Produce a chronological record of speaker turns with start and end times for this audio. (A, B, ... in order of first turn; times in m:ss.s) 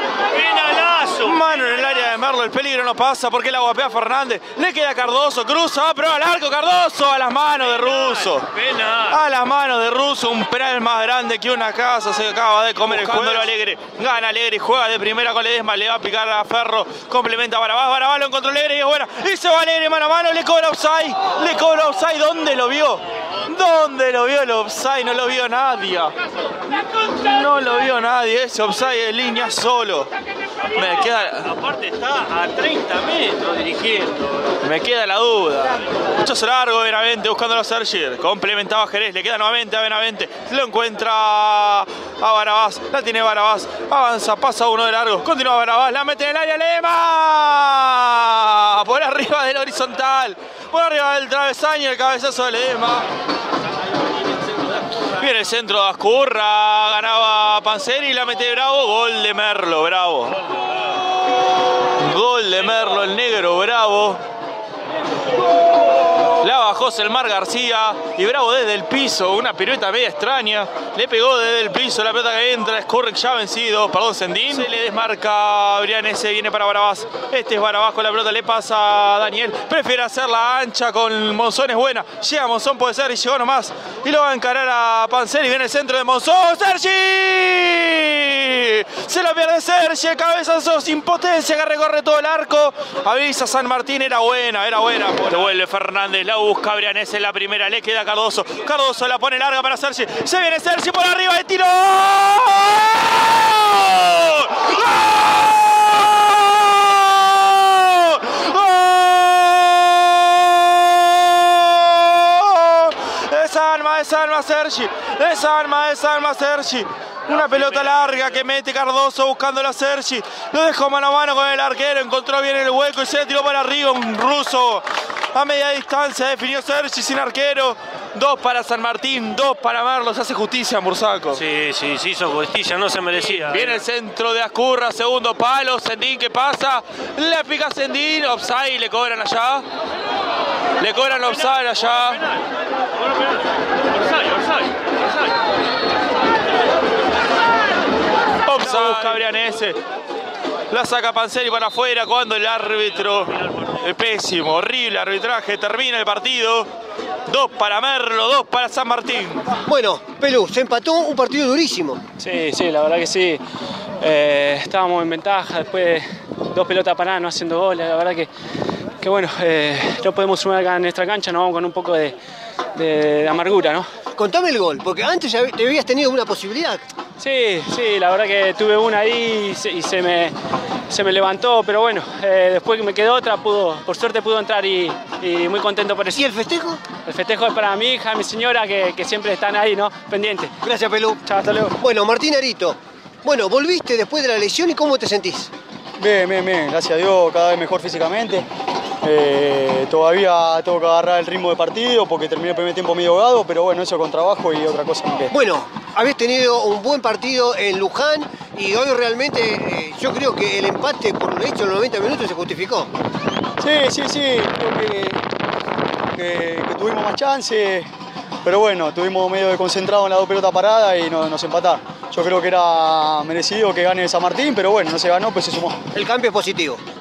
0:00.3-0:01.4 A
0:01.2-0:08.5 B
0:07.6-0:09.2 A
0:09.1-0:26.1 B
0:12.8-0:13.5 A
0:26.9-0:30.1 B
0:30.7-0:31.5 B
0:30.8-0:34.5 A
0:34.6-0:53.1 B
0:55.2-1:00.4 B
1:01.9-1:04.2 B
1:06.4-2:11.4 B
2:11.3-2:13.8 A
2:13.3-2:19.6 B
2:20.8-2:22.3 B
2:24.2-2:24.5 A
2:28.4-2:29.8 B
2:30.7-2:36.7 B
2:37.3-2:39.5 B
2:39.6-2:42.0 C
2:42.2-2:43.4 D
2:44.0-2:48.3 D
2:49.0-2:52.2 D
2:52.7-2:53.8 D
2:54.2-2:56.8 C
2:57.2-3:00.3 D
3:00.9-3:06.2 D
3:06.1-3:06.8 C
3:07.0-3:10.5 D
3:10.6-3:11.2 C
3:11.2-3:11.8 D
3:11.8-3:15.5 C
3:16.0-3:18.4 E
3:19.0-3:25.3 E
3:25.3-3:32.9 C
3:33.6-3:35.2 E
3:36.1-3:37.9 E
3:38.4-3:45.8 E
3:45.9-3:46.8 C